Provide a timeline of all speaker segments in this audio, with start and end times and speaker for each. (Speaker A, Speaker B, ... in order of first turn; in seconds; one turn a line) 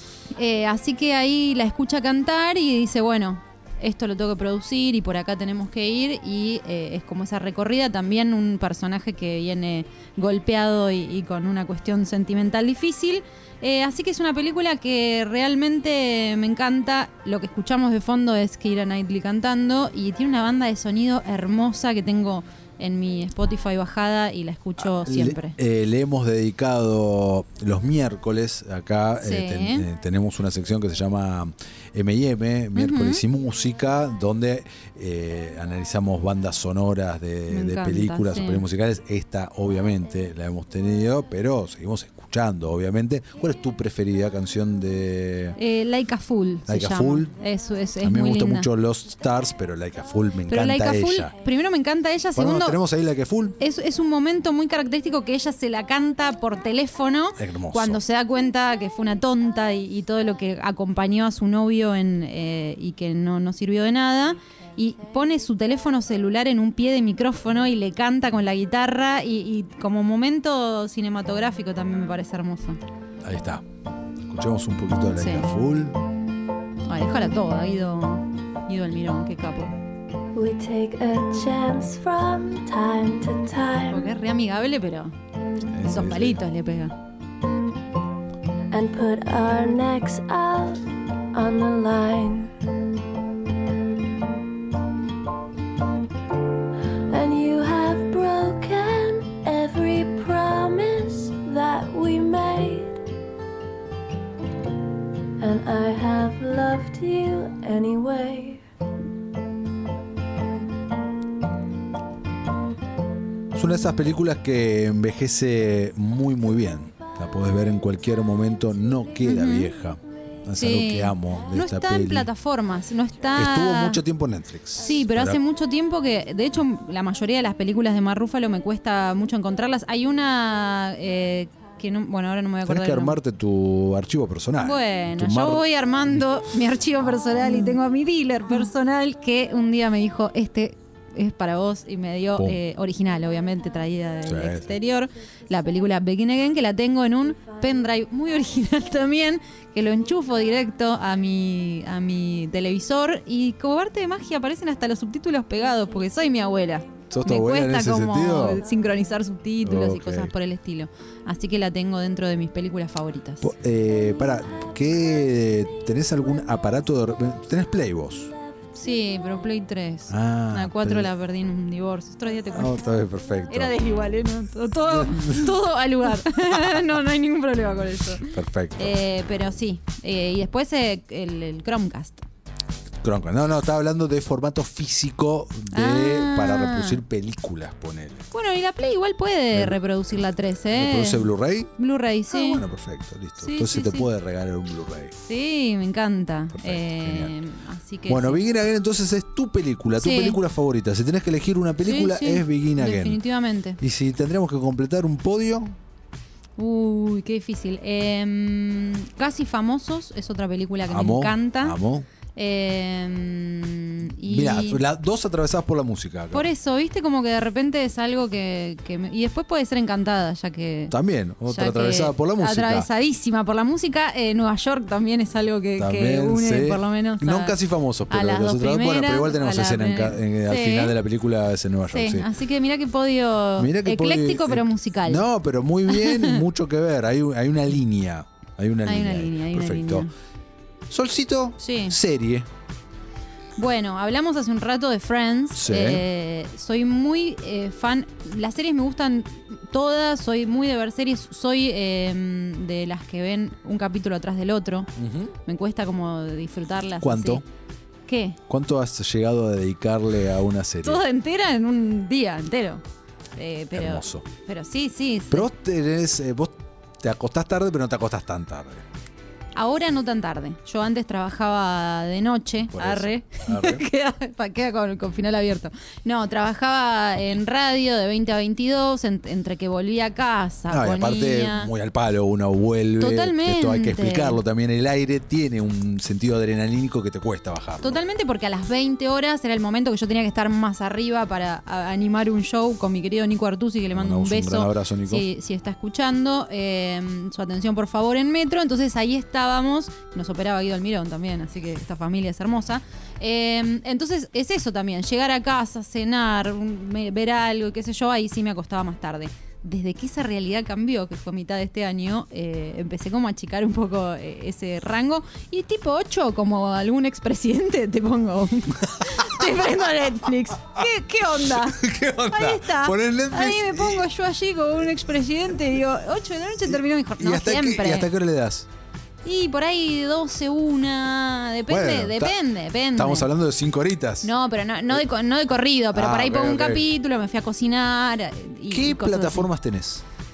Speaker A: 0.4-25.6
Speaker B: 25.0-45.6
Speaker A: 29.2-29.9
Speaker A: 32.8-33.2
Speaker A: 37.5-38.7
Speaker A: 45.6-48.7
Speaker B: 46.7-47.3
Speaker B: 48.0-51.3
Speaker A: 50.5-52.8
Speaker B: 52.4-53.6
Speaker A: 53.6-72.8
Speaker B: 57.4-58.0
Speaker B: 73.2-73.6
Speaker B: 74.3-76.0
Speaker A: 75.1-75.5
Speaker A: 76.9-79.8
Speaker C: 80.3-84.1
Speaker A: 83.9-85.2
Speaker B: 85.7-86.4
Speaker A: 85.8-87.0
Speaker C: 88.7-92.5
Speaker C: 97.1-103.0
Speaker C: 105.4-108.6
Speaker B: 113.5-122.3
Speaker A: 119.2-119.8
Speaker A: 120.6-124.0
Speaker B: 123.4-125.4
Speaker A: 124.8-133.2
Speaker B: 132.7-135.6
Speaker A: 134.6-163.5
Speaker B: 144.2-144.7
Speaker B: 157.1-158.6
Speaker B: 159.6-160.3
Speaker B: 163.4-168.3
Speaker A: 168.7-172.9
Speaker B: 170.1-171.1
Speaker B: 172.5-173.8
Speaker A: 173.5-182.2
Speaker B: 174.9-175.5
Speaker B: 178.2-179.0
Speaker B: 183.0-188.3
Speaker A: 185.7-187.0
Speaker A: 188.3-192.7
Speaker B: 189.5-189.8
Speaker B: 190.7-191.7
Speaker B: 192.3-195.1
Speaker A: 193.4-194.1
Speaker A: 195.2-198.4
Speaker B: 196.5-197.4
Speaker B: 198.1-203.2
Speaker A: 200.0-200.4
Speaker A: 201.8-203.8
Speaker B: 203.8-205.7
Speaker A: 206.6-211.8
Speaker B: 210.9-212.1
Speaker A: 212.3-214.8
Speaker B: 214.2-216.5
Speaker A: 216.3-227.6
Speaker B: 220.9-222.9
Speaker B: 225.8-232.3
Speaker A: 228.1-231.0
Speaker A: 231.9-235.3
Speaker B: 233.6-240.1
Speaker A: 235.9-236.4
Speaker A: 238.8-240.1
Speaker B: 240.9-242.5
Speaker A: 241.6-242.0
Speaker A: 243.6-254.9
Speaker B: 245.5-246.1
Speaker B: 255.0-255.4
Speaker A: 255.4-257.4
Speaker B: 257.0-257.4
Speaker A: 258.1-258.4
Speaker B: 258.5-261.0
Speaker A: 260.8-262.8
Speaker A: 263.4-265.5
Speaker B: 263.7-264.3
Speaker B: 265.3-268.8
Speaker A: 269.6-281.7
Speaker B: 272.7-273.9
Speaker B: 280.7-288.0
Speaker A: 283.0-284.4
Speaker A: 287.8-328.1
Speaker B: 293.9-295.3
Speaker B: 321.5-324.1
Speaker B: 326.7-328.7
Speaker A: 329.2-333.3
Speaker B: 331.7-332.4
Speaker B: 332.9-334.3
Speaker A: 334.2-339.5
Speaker B: 335.9-336.9
Speaker B: 338.7-340.0